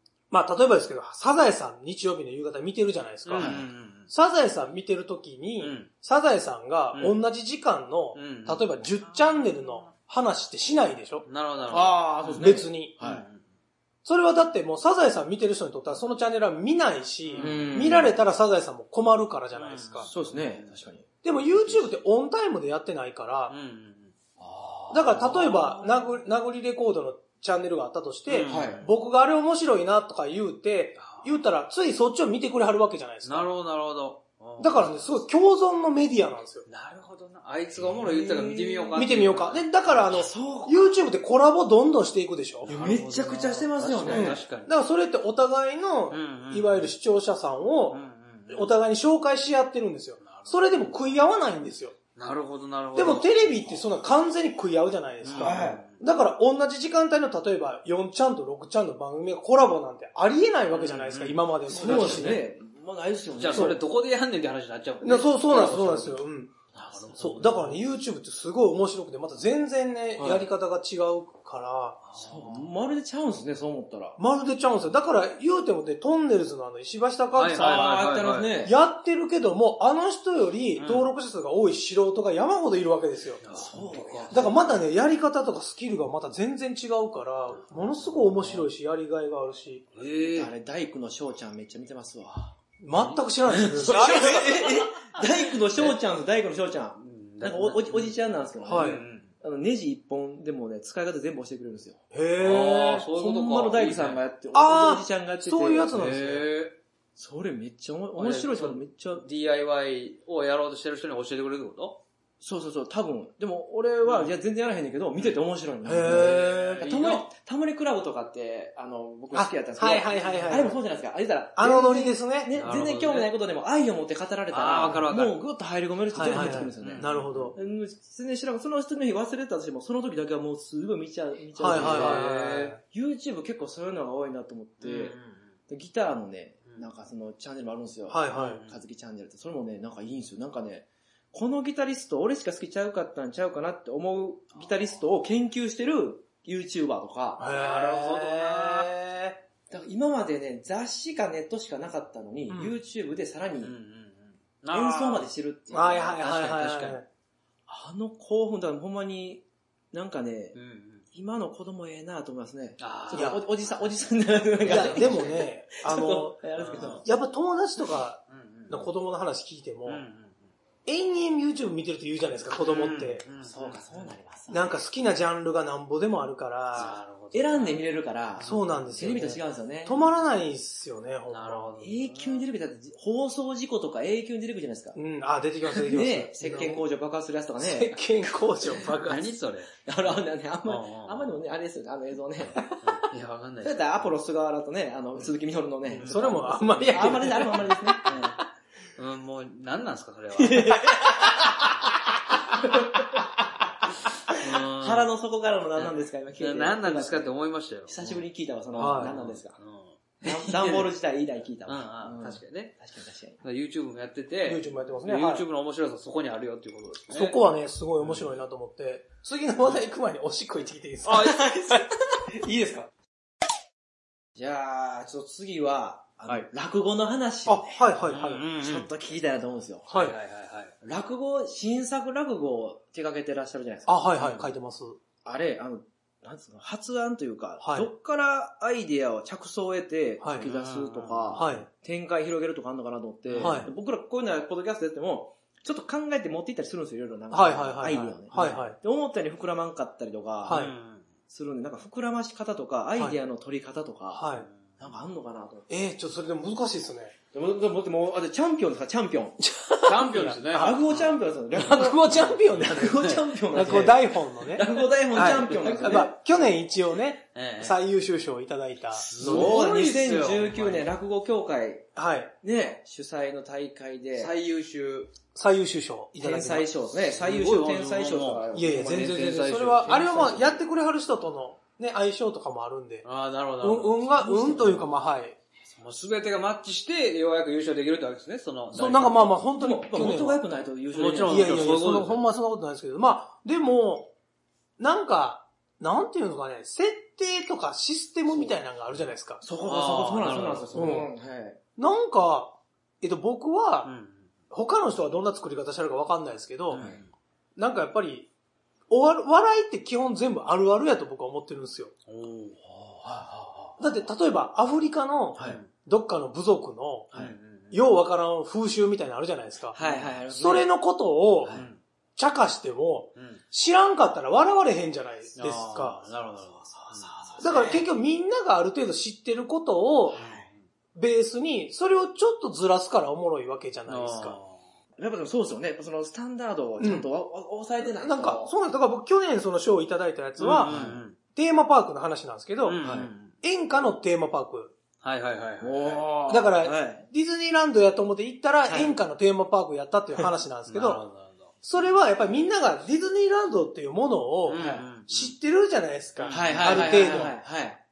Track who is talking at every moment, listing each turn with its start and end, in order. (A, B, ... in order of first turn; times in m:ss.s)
0:00.3-0:03.6 A
0:03.2-0:04.1 B
0:03.4-0:03.7 C
0:04.1-0:11.2 A
0:05.6-0:05.9 B
0:06.9-0:07.2 B
0:08.1-0:09.8 B
0:11.3-0:13.4 B
0:11.7-0:13.2 C
0:12.4-0:13.0 A
0:14.0-0:20.1 A
0:17.3-0:17.7 B
0:17.4-0:18.1 C
0:19.5-0:20.8 B
0:20.0-0:21.9 C
0:21.2-0:23.5 A
0:23.5-0:24.1 B
0:24.4-0:25.8 C
0:24.9-0:33.5 A
0:28.3-0:28.9 B
0:28.5-0:28.8 C
0:31.0-0:31.3 B
0:33.2-0:35.2 B
0:34.6-0:36.7 A
0:36.7-0:39.6 B
0:37.8-0:39.0 C
0:38.9-0:42.7 A
0:39.9-0:41.0 C
0:42.6-0:44.7 B
0:42.7-0:44.4 C
0:44.0-0:52.0 A
0:46.1-0:46.9 B
0:47.9-0:48.7 B
0:50.2-0:51.0 B
0:52.2-0:53.8 B
0:52.9-1:02.4 A
0:55.2-0:56.0 B
0:55.4-0:55.8 C
1:00.7-1:02.4 B
1:01.7-1:03.8 C
1:03.4-1:06.2 B
1:03.5-1:03.8 A
1:05.0-1:06.6 A
1:06.7-1:07.4 C
1:06.8-1:07.8 B
1:07.2-1:12.0 A
1:10.2-1:10.4 C
1:12.0-1:12.7 B
1:12.1-1:14.2 C
1:14.2-1:18.0 A
1:17.3-1:18.6 B
1:17.5-1:18.7 C
1:18.6-1:23.4 A
1:20.8-1:21.1 B
1:23.4-1:24.5 B
1:23.5-1:24.6 C
1:24.3-1:29.9 A
1:29.9-1:30.5 B
1:30.3-1:32.6 C
1:32.8-1:34.7 A
1:32.9-1:33.9 B
1:33.5-1:46.4 C
1:37.0-1:38.1 B
1:38.6-1:39.0 A
1:38.8-1:39.3 B
1:42.1-1:43.0 A
1:42.4-1:44.2 B
1:44.5-1:46.4 A
1:45.9-1:46.8 B
1:47.2-1:49.2 C
1:48.2-1:52.0 B
1:52.4-2:15.2 C
1:54.0-1:54.3 B
1:55.8-1:56.6 A
1:56.0-1:57.3 B
1:59.3-2:00.8 A
2:00.2-2:00.5 B
2:01.6-2:02.5 A
2:02.5-2:03.3 B
2:04.5-2:05.4 B
2:06.1-2:07.6 A
2:06.2-2:07.5 B
2:11.6-2:12.8 A
2:11.6-2:12.8 B
2:14.8-2:15.4 B
2:15.7-2:27.5 C
2:18.1-2:18.6 A
2:18.3-2:18.8 B
2:27.4-2:29.4 A
2:27.5-2:28.9 B
2:29.7-2:33.7 C
2:32.5-2:32.7 A
2:33.6-2:35.3 B
2:34.7-2:36.2 C
2:35.7-2:37.0 A
2:36.2-2:37.0 B
2:37.7-2:40.6 C
2:40.5-2:41.0 B
2:41.1-2:47.0 C
2:42.8-2:43.4 B
2:43.1-2:43.4 A
2:44.6-2:45.1 B
2:44.6-2:50.0 A
2:46.6-2:47.0 B
2:48.3-2:48.9 B
2:49.8-2:50.4 B
2:50.8-2:53.2 A
2:52.6-2:54.1 B
2:53.4-2:54.8 C
2:54.5-2:57.0 A
2:56.8-2:57.8 B
2:57.3-3:00.0 C
2:58.4-3:01.7 A
3:01.3-3:02.4 B
3:01.8-3:05.0 C
3:04.9-3:06.8 A
3:05.7-3:08.0 C
3:07.6-3:09.3 A
3:08.8-3:10.1 B
3:09.8-3:13.0 C
3:10.6-3:11.4 B
3:12.7-3:14.1 B
3:13.6-3:18.4 C
3:15.9-3:16.3 B
3:16.0-3:17.8 A
3:19.0-3:20.9 B
3:20.3-3:23.2 C
3:24.3-3:27.3 C
3:24.3-3:25.1 B
3:25.8-3:28.2 B
3:27.9-3:29.6 C
3:28.8-3:29.2 A
3:28.8-3:30.9 B
3:30.2-3:33.4 C
3:31.7-3:32.8 B
3:33.4-3:37.4 B
3:34.4-3:35.4 A
3:37.1-3:42.9 A
3:41.1-3:42.2 C
3:41.1-3:41.4 B
3:44.4-3:48.0 C
3:47.4-3:48.5 A
3:48.1-3:48.9 B
3:48.5-3:50.1 C
3:49.9-3:50.2 A
3:49.9-3:50.7 B
3:50.8-3:54.1 C
3:53.8-3:55.0 A
3:54.2-3:54.4 B
3:55.2-4:10.7 C
3:57.6-3:57.9 A
4:00.2-4:00.5 A
4:00.4-4:01.4 B
4:01.4-4:01.7 A
4:03.2-4:03.6 B
4:03.4-4:03.7 A
4:07.3-4:08.8 A
4:10.4-4:10.7 A
4:10.5-4:11.0 B
4:11.3-4:14.3 C
4:14.1-4:14.5 A
4:14.8-4:15.7 C
4:15.7-4:17.1 A
4:17.3-4:19.4 C
4:19.4-4:20.7 A
4:19.8-4:21.1 B
4:20.5-4:26.1 C
4:21.5-4:29.6 A
4:22.1-4:23.8 B
4:25.6-4:26.0 B
4:27.3-4:27.8 B
4:28.9-4:30.9 B
4:29.2-4:31.9 C
4:32.0-4:32.3 A
4:32.4-4:34.3 C
4:34.2-4:35.1 B
4:35.3-4:36.7 A
4:36.2-4:39.2 C
4:37.0-4:40.5 B
4:38.5-4:43.0 A
4:39.9-4:40.4 C
4:43.0-4:44.0 B
4:43.6-4:45.4 A
4:44.1-4:44.8 C
4:45.7-4:49.3 B
4:48.7-4:50.4 A
4:49.6-4:51.7 C
4:50.9-4:52.2 B
4:51.2-4:54.1 A
4:54.8-4:59.4 A
4:59.4-5:01.6 C
4:59.6-5:01.0 B
5:00.7-5:01.1 A
5:01.8-5:03.9 A
5:03.8-5:04.2 B
5:04.5-5:06.8 A
5:06.7-5:07.0 B
5:06.8-5:07.0 C
5:07.6-5:08.3 A
5:08.9-5:11.9 A
5:12.1-5:13.0 B
5:13.0-5:13.8 C
5:13.8-5:17.1 A
5:15.4-5:15.7 B
5:17.1-5:17.8 B
5:17.7-5:19.8 A
5:19.7-5:20.7 C
5:19.8-5:20.1 B
5:20.3-5:21.5 A
5:21.5-5:21.8 B
5:22.2-5:26.1 A
5:23.2-5:23.4 B
5:25.4-5:27.4 B
5:26.7-5:27.8 C
5:27.4-5:30.2 A
5:30.1-5:30.4 C
5:30.1-5:30.6 B
5:30.9-5:34.4 A
5:33.9-5:34.6 B
5:35.0-5:38.5 C
5:36.8-5:37.0 A
5:38.0-5:42.8 A
5:40.4-5:41.2 B
5:40.6-5:41.0 C
5:42.6-5:43.3 B
5:42.8-5:43.1 C
5:43.4-5:44.8 A
5:45.0-5:46.1 B
5:45.6-5:47.0 C
5:46.3-5:51.0 A
5:48.7-5:49.0 C
5:50.7-5:51.5 B
5:51.6-5:57.4 A
5:54.5-5:55.3 B
5:54.5-5:54.9 C
5:56.2-5:57.3 B
5:56.3-5:57.8 C